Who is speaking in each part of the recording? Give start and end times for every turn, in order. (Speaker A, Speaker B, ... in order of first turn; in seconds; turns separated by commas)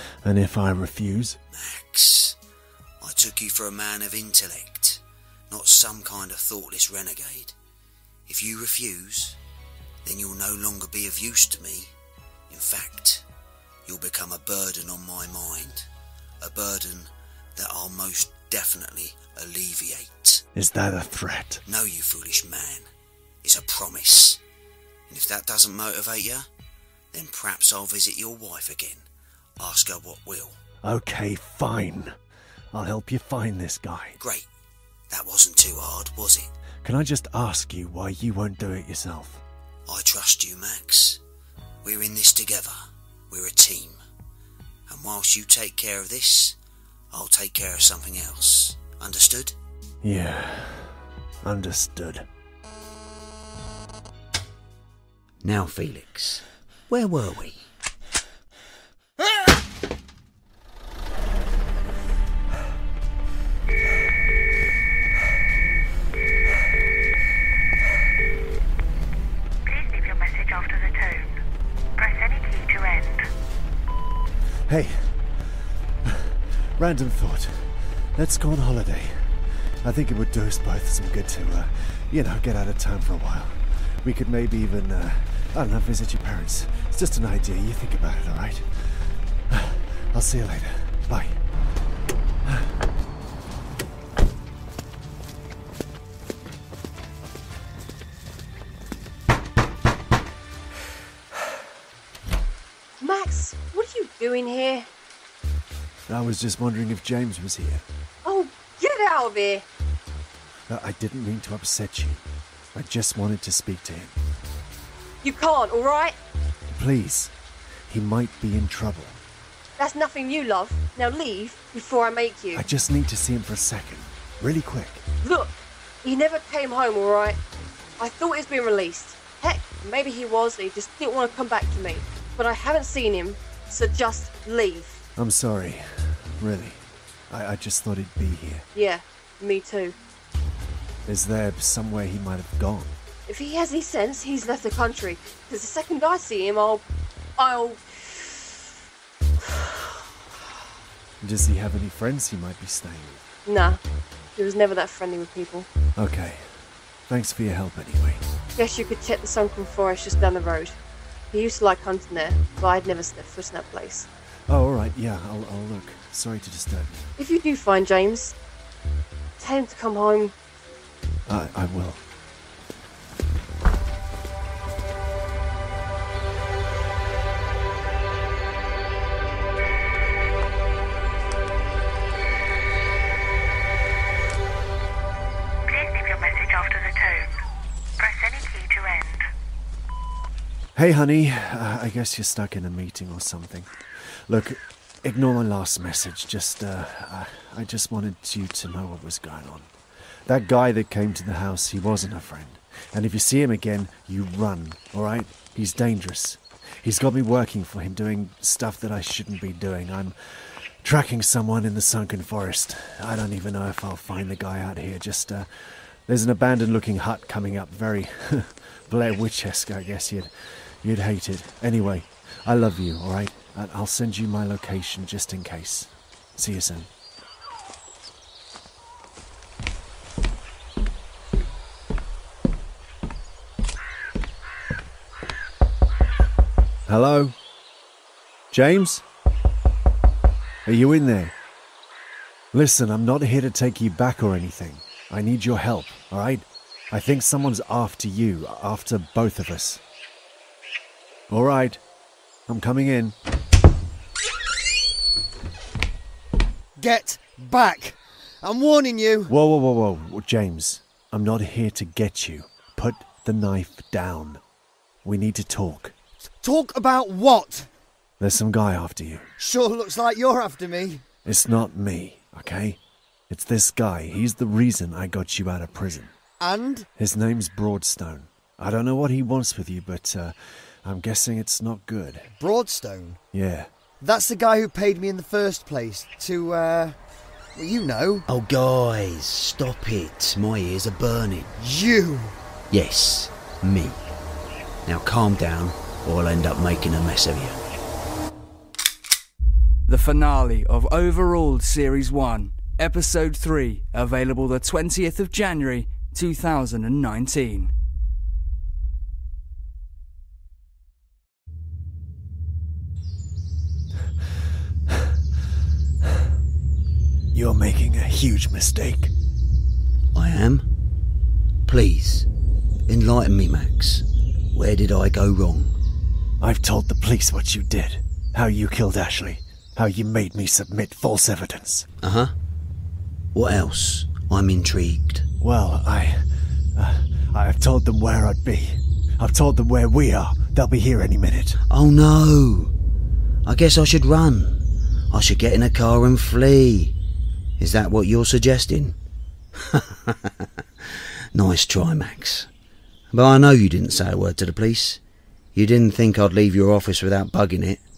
Speaker A: 0.2-1.4, Speaker B: 1.5-2.4, Speaker B: 3.0-7.5, Speaker B: 8.3-9.4, Speaker B: 10.0-11.9, Speaker B: 12.5-13.2, Speaker B: 13.8-15.9, Speaker B: 16.4-20.4, Speaker A: 20.5-21.6, Speaker B: 21.6-22.9, Speaker B: 23.4-24.4, Speaker B: 25.1-26.5, Speaker B: 27.1-29.0, Speaker B: 29.6-30.6, Speaker A: 30.8-32.1, Speaker A: 32.7-34.2, Speaker B: 34.2-34.5, Speaker B: 35.1-36.5, Speaker A: 36.8-39.4, Speaker B: 39.9-41.2, Speaker B: 41.8-42.8, Speaker B: 43.3-44.0, Speaker B: 44.9-46.6, Speaker B: 47.1-49.5, Speaker A: 50.0-52.2, Speaker B: 55.4-57.6, Speaker C: 69.7-71.3, Speaker C: 72.0-73.2, Speaker A: 74.7-91.4, Speaker A: 92.5-92.7, Speaker C: 103.0-104.8, Speaker A: 106.1-107.8, Speaker C: 108.2-109.6, Speaker A: 110.7-112.2, Speaker A: 112.7-114.2, Speaker C: 115.2-116.1, Speaker A: 116.7-117.3, Speaker A: 117.9-119.2, Speaker C: 119.8-122.6, Speaker A: 122.5-125.0, Speaker C: 125.2-125.5, Speaker C: 126.0-127.4, Speaker C: 128.0-134.9, Speaker A: 135.2-138.7, Speaker C: 138.7-139.9, Speaker A: 141.0-142.9, Speaker C: 143.3-146.8, Speaker C: 147.4-147.8, Speaker A: 151.2-153.2, Speaker C: 153.5-153.8, Speaker C: 154.4-155.7, Speaker A: 156.0-158.2, Speaker C: 158.6-160.7, Speaker C: 161.3-164.1, Speaker A: 164.5-167.1, Speaker C: 167.2-168.3, Speaker C: 169.4-170.3, Speaker A: 171.3-172.0, Speaker C: 185.7-187.3, Speaker C: 188.0-189.2, Speaker A: 190.7-199.7, Speaker A: 200.2-226.9, Speaker A: 236.9-237.3, Speaker A: 238.5-239.0, Speaker A: 240.6-241.3, Speaker A: 242.5-249.8, Speaker A: 251.3-251.8, Speaker A: 252.5-253.1, Speaker D: 256.8-259.3, Speaker A: 259.3-264.4, Speaker A: 265.0-265.9, Speaker D: 266.4-267.7, Speaker A: 268.2-269.3, Speaker D: 269.4-271.0, Speaker A: 271.2-272.8, Speaker A: 273.3-276.1, Speaker D: 276.4-276.9, Speaker A: 276.9-282.3, Speaker D: 282.4-283.2, Speaker A: 283.3-283.7, Speaker D: 284.0-287.0, Speaker D: 287.5-288.2, Speaker B: 288.3-291.5, Speaker D: 291.6-292.3, Speaker B: 292.7-294.0, Speaker B: 294.9-297.6, Speaker E: 299.9-307.7, Speaker A: 317.3-319.1, Speaker B: 320.1-320.7, Speaker B: 321.6-322.3, Speaker B: 322.9-325.7, Speaker A: 326.4-331.9, Speaker B: 332.0-332.3, Speaker B: 333.3-335.2, Speaker A: 335.4-336.2, Speaker A: 336.7-341.6, Speaker B: 341.7-342.7, Speaker B: 343.4-346.9, Speaker B: 347.6-348.9, Speaker B: 349.7-350.3, Speaker B: 351.3-352.5, Speaker B: 353.1-355.0, Speaker B: 355.5-357.8